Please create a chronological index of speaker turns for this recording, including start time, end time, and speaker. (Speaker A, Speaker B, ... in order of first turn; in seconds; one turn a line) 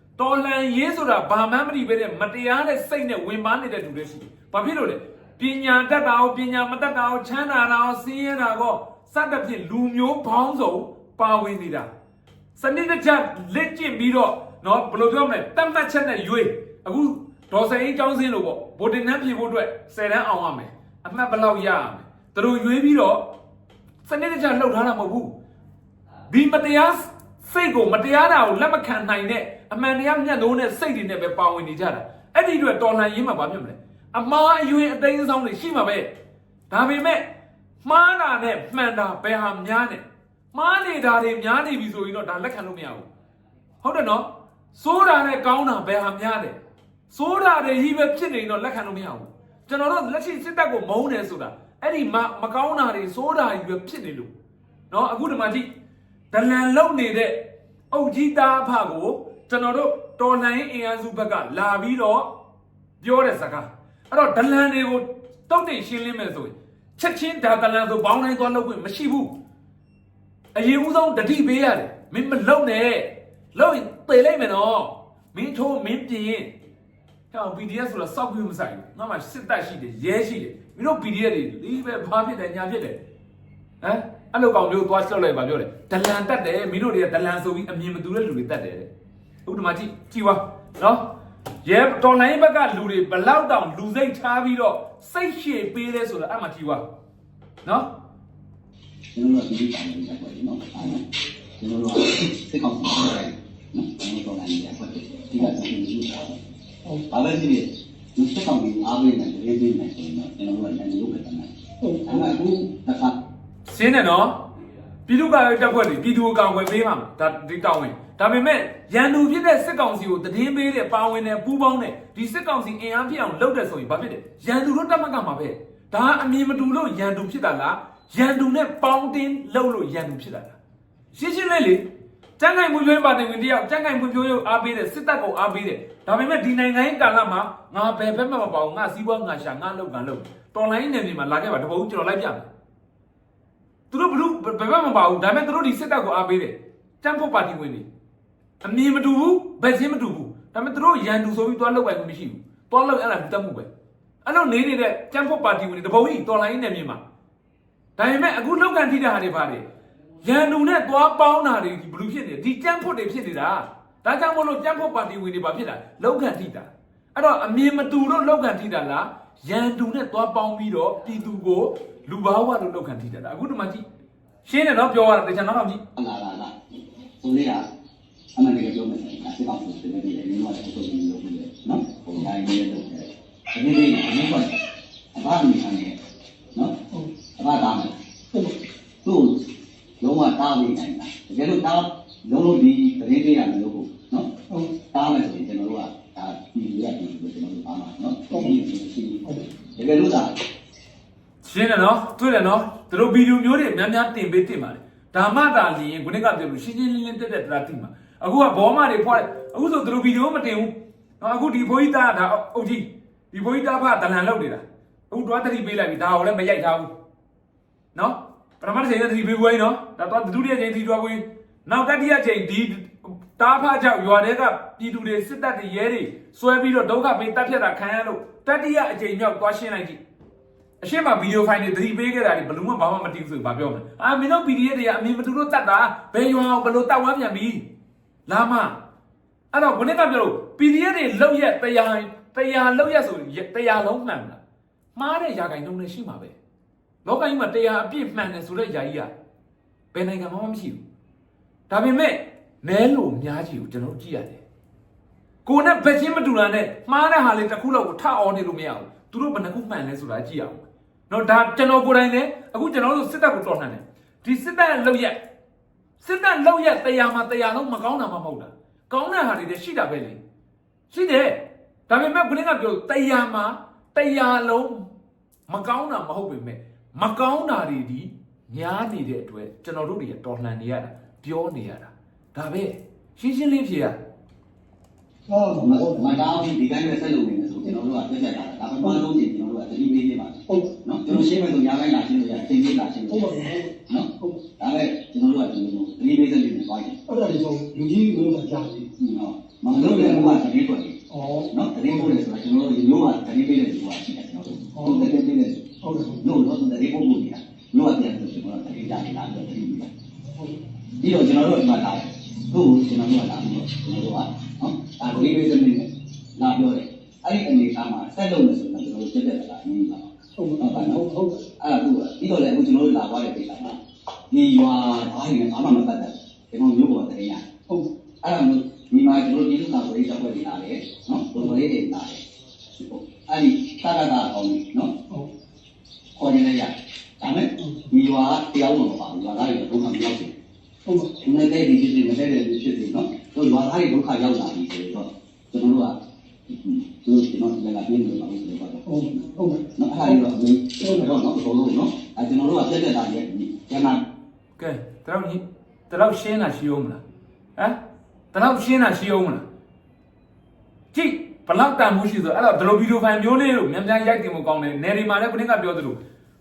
Speaker A: 0.2-11.9
Speaker A: 12.6-23.2
Speaker A: 24.0-25.3
Speaker A: 26.3-36.1
Speaker A: 36.7-37.2
Speaker A: 37.8-43.1
Speaker A: 43.8-46.6
Speaker A: 47.1-54.3
Speaker A: 54.9-55.7
Speaker A: 56.3-57.4
Speaker A: 57.9-62.3
Speaker A: 63.0-69.3
Speaker A: 70.5-76.5
Speaker A: 77.3-83.0
Speaker A: 83.8-88.9
Speaker A: 89.4-91.1
Speaker A: 91.6-96.8
Speaker B: 99.1-101.1
Speaker B: 101.6-106.4
Speaker B: 107.1-111.5
Speaker C: 111.8-112.1
Speaker B: 112.0-113.1
Speaker A: 113.7-114.4
Speaker A: 115.0-130.6
Speaker A: 131.1-131.8
Speaker A: 132.4-142.5
Speaker A: 143.9-147.8
Speaker A: 148.6-153.7
Speaker A: 154.2-157.0
Speaker A: 158.0-159.6
Speaker A: 160.2-173.8
Speaker A: 174.4-175.8
Speaker B: 175.9-176.6
Speaker B: 177.2-177.6
Speaker B: 178.3-184.6
Speaker B: 185.1-186.0
Speaker B: 187.4-187.9
Speaker B: 189.0-189.4
Speaker B: 190.0-194.3
Speaker B: 194.9-200.3
Speaker A: 201.4-216.9
Speaker A: 217.9-230.0
Speaker A: 230.8-237.6
Speaker A: 238.3-238.8
Speaker A: 239.5-244.4
Speaker A: 244.9-246.3
Speaker A: 247.0-249.1
Speaker A: 249.9-250.8
Speaker A: 251.7-254.4
Speaker A: 255.4-265.2
Speaker A: 266.0-270.2
Speaker A: 270.9-274.9
Speaker A: 275.5-284.0
Speaker C: 285.3-286.4
Speaker B: 285.5-297.0
Speaker C: 293.1-294.4
Speaker C: 297.1-298.9
Speaker B: 299.0-305.6
Speaker C: 299.7-300.4
Speaker C: 301.1-302.1
Speaker C: 304.7-305.1
Speaker C: 305.8-306.2
Speaker B: 306.2-309.9
Speaker B: 311.0-321.1
Speaker C: 320.4-321.4
Speaker B: 321.6-323.8
Speaker B: 324.3-327.4
Speaker B: 328.2-332.2
Speaker B: 332.8-334.9
Speaker B: 336.1-340.3
Speaker C: 340.9-341.1
Speaker B: 341.1-345.9
Speaker B: 346.5-354.0
Speaker C: 348.9-350.1
Speaker A: 354.6-357.0
Speaker A: 358.3-359.4
Speaker A: 360.9-365.9